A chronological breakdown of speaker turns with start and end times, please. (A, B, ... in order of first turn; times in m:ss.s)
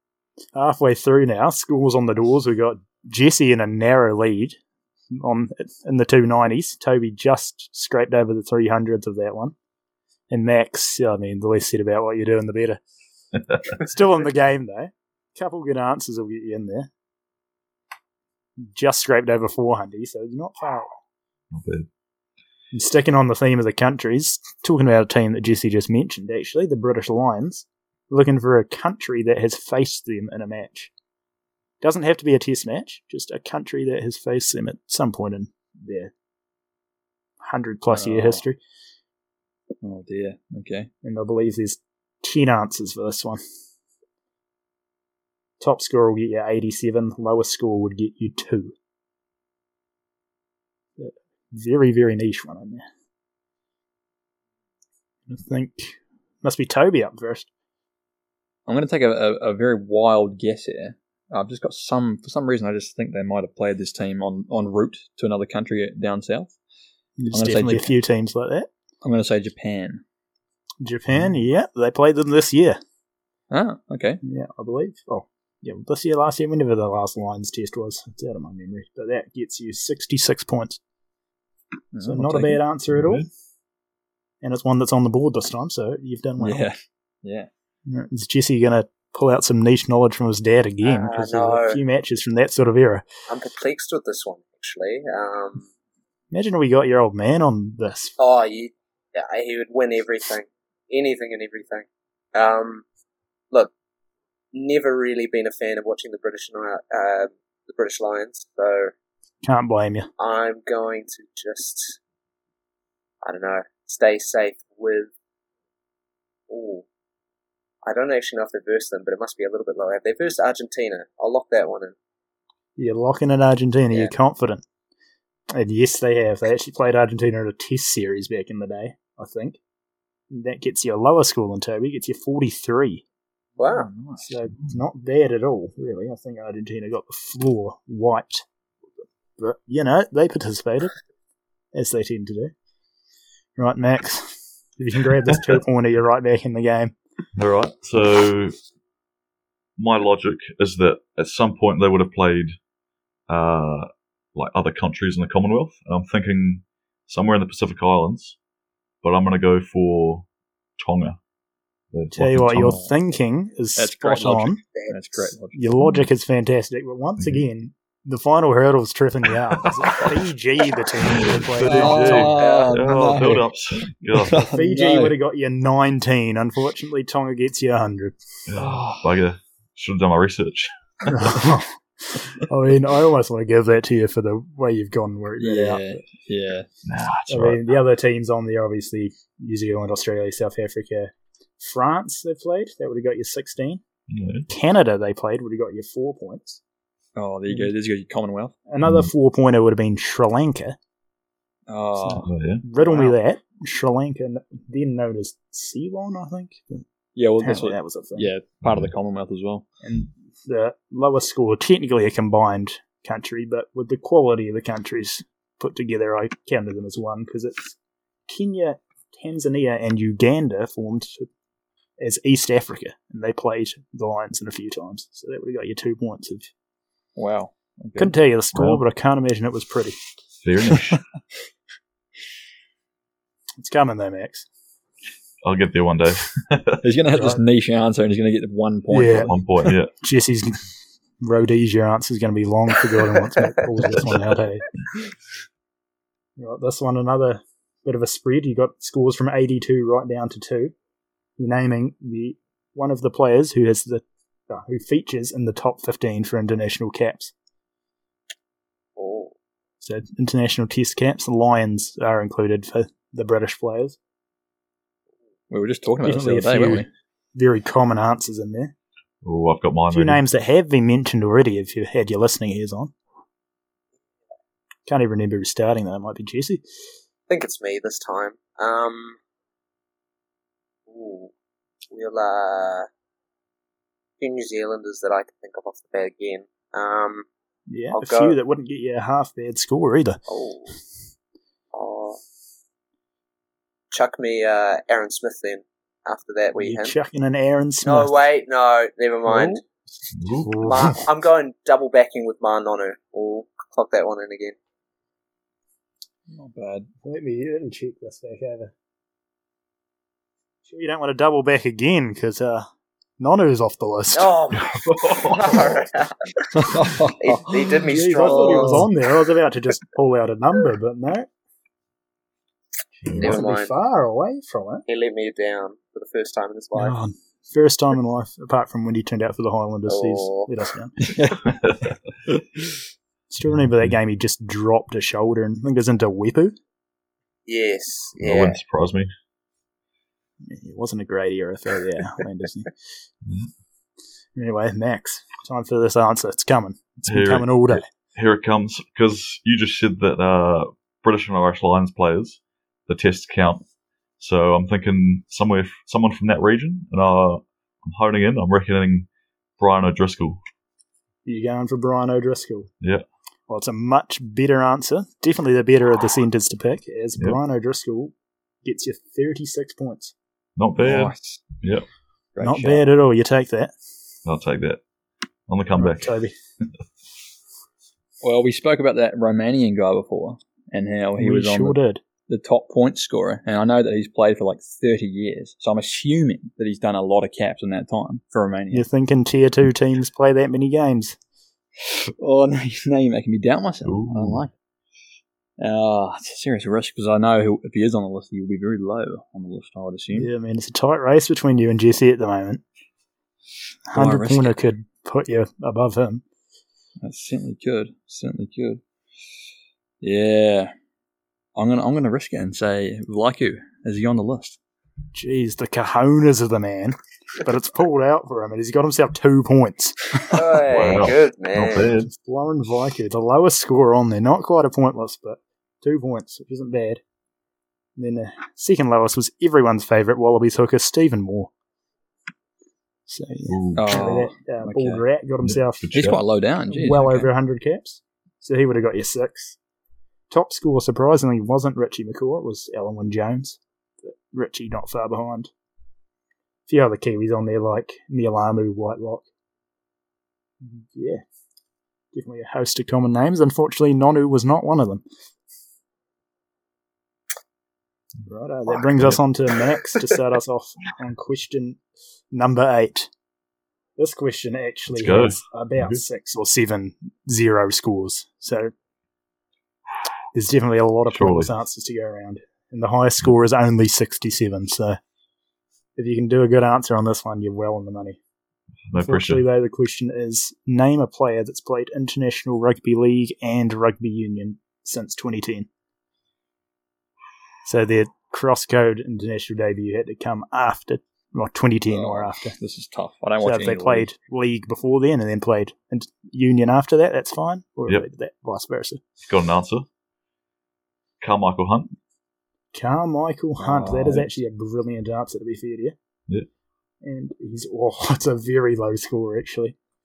0:00.5-0:04.6 A
0:05.1-0:09.5 A
0:10.3-0:12.8 A
0:13.7-0:16.9 A
0:18.7-0:21.0 A
0:21.5-0:21.9 B
0:22.7-0:30.9 A
0:31.8-0:36.1 A
0:37.4-0:38.6 A
0:37.9-0:38.4 C
0:39.8-0:40.9 C
0:41.0-0:43.4 A
0:45.6-0:48.7 A
0:51.0-0:52.8 A
0:55.3-0:57.5 A
0:58.6-1:06.5 C
1:07.2-1:08.7 A
1:07.3-1:07.9 C
1:09.0-1:10.0 C
1:10.8-1:12.8 A
1:13.5-1:14.2 C
1:14.2-1:20.8 A
1:21.9-1:22.6 C
1:22.0-1:23.2 A
1:22.9-1:23.2 B
1:24.4-1:26.7 A
1:26.4-1:27.5 C
1:27.9-1:33.0 A
1:30.8-1:31.8 D
1:33.3-1:35.7 D
1:36.3-1:38.1 A
1:38.2-1:42.8 D
1:44.5-1:48.9 D
1:49.4-1:50.1 A
1:50.2-1:52.0 D
1:53.2-1:55.1 D
1:56.5-1:56.8 D
1:57.8-2:01.9 D
2:02.8-2:04.6 A
2:05.5-2:09.6 A
2:10.3-2:13.0 A
2:13.6-2:14.2 C
2:13.6-2:13.9 D
2:14.2-2:18.4 A
2:19.4-2:20.9 A
2:21.7-2:22.5 A
2:23.6-2:26.9 A
2:27.4-2:28.5 B
2:29.8-2:32.6 B
2:33.3-2:38.4 B
2:39.0-2:40.2 B
2:40.8-2:41.2 B
2:41.9-2:42.8 B
2:42.1-2:44.6 A
2:42.6-2:42.9 C
2:43.8-2:45.6 C
2:44.7-2:45.3 D
2:45.5-2:52.3 A
2:51.1-2:54.5 B
2:51.6-2:53.5 C
2:52.3-2:52.8 D
2:54.1-2:55.2 C
2:54.3-2:58.2 A
2:58.5-3:01.4 B
2:58.6-2:59.0 C
3:01.1-3:06.0 A
3:05.4-3:06.7 C
3:06.8-3:07.6 B
3:07.3-3:13.8 A
3:14.1-3:14.5 B
3:14.5-3:16.6 A
3:17.2-3:18.5 C
3:18.7-3:20.8 A
3:18.8-3:19.1 B
3:21.7-3:22.3 C
3:22.0-3:26.8 A
3:22.2-3:22.6 B
3:22.8-3:23.2 C
3:27.2-3:29.6 C
3:27.4-3:28.3 A
3:28.6-3:28.9 B
3:29.8-3:37.8 A
3:38.3-3:41.3 A
3:42.0-3:46.5 A
3:47.2-3:48.1 C
3:48.0-3:50.0 A
3:48.5-3:48.8 B
3:50.4-3:51.0 B
3:53.6-3:54.5 A
3:55.4-3:56.8 B
3:56.8-3:59.7 C
3:57.1-3:57.4 A
3:58.9-3:59.3 A
3:59.3-3:59.9 B
4:00.0-4:00.7 A
4:01.2-4:04.6 A
4:06.4-4:10.7 A
4:11.4-4:17.3 A
4:19.0-4:19.3 D
4:19.8-4:24.0 A
4:25.5-4:26.9 C
4:26.0-4:28.7 A
4:29.2-4:30.2 B
4:29.9-4:32.9 A
4:34.9-4:36.6 A
4:37.3-4:39.2 D
4:40.9-4:41.3 D
4:41.9-4:42.9 D
4:44.2-4:47.2 D
4:47.7-4:50.2 A
4:47.9-4:48.4 D
4:50.3-4:50.7 D
4:51.7-4:52.2 D
4:53.9-4:56.9 D
4:56.6-4:58.1 A
4:57.8-4:59.6 D
4:59.3-4:59.6 A
5:00.1-5:00.7 B
5:00.4-5:01.0 A
5:00.6-5:04.6 D
5:06.3-5:06.9 C
5:07.0-5:08.7 A
5:10.7-5:12.7 A
5:13.2-5:14.4 A
5:14.1-5:18.9 D
5:14.5-5:15.8 B
5:16.6-5:18.8 C
5:17.9-5:21.3 A
5:23.0-5:23.4 B
5:23.1-5:24.8 A
5:23.2-5:23.7 D
5:24.8-5:26.9 D
5:26.8-5:30.9 A
5:29.9-5:30.5 D
5:31.0-5:31.6 C
5:31.4-5:31.9 B
5:33.3-5:36.5 A
5:33.5-5:33.9 B
5:37.5-5:38.6 D
5:38.2-5:39.1 B
5:40.4-5:42.7 A
5:43.2-5:43.5 B
5:44.4-5:47.9 A
5:47.1-5:53.6 B
5:54.2-5:59.1 B
5:59.6-6:00.4 B
6:01.2-6:02.7 A
6:03.5-6:10.1 A
6:10.6-6:11.8 B
6:10.8-6:11.4 C
6:12.3-6:12.9 C
6:12.4-6:13.7 A
6:14.2-6:14.8 B
6:15.5-6:16.2 B
6:15.8-6:16.3 A
6:18.2-6:21.8 C
6:21.2-6:22.0 A
6:22.3-6:28.8 C
6:28.7-6:31.2 A
6:31.8-6:34.5 C
6:33.8-6:34.4 B
6:35.6-6:40.3 C
6:40.1-6:42.6 A
6:43.9-6:46.2 A
6:43.9-6:44.6 C
6:47.0-6:48.8 C
6:50.0-6:50.7 C
6:51.6-6:54.6 C
6:55.1-7:00.1 A
7:00.3-7:01.9 D
7:00.7-7:02.1 B
7:02.0-7:07.0 A
7:08.0-7:11.5 A
7:13.1-7:15.9 A
7:13.5-7:14.0 B
7:13.8-7:15.0 C
7:15.4-7:16.2 B
7:15.9-7:17.3 C
7:16.7-7:19.6 A
7:20.3-7:25.5 A
7:26.7-7:29.3 A
7:30.6-7:31.2 A
7:32.1-7:35.0 A
7:38.2-7:41.8 A
7:42.3-7:43.1 A
7:44.0-7:48.7 A
7:44.9-7:46.0 B
7:50.3-7:55.0 A
7:51.1-7:51.5 B
7:56.0-7:58.2 A
7:58.9-7:59.4 B
7:59.0-8:05.7 A
8:07.6-8:12.6 A
8:11.9-8:14.1 C
8:13.4-8:19.0 A
8:19.2-8:19.8 B
8:21.2-8:21.9 B
8:22.7-8:26.0 A
8:23.6-8:24.3 C
8:27.0-8:29.8 A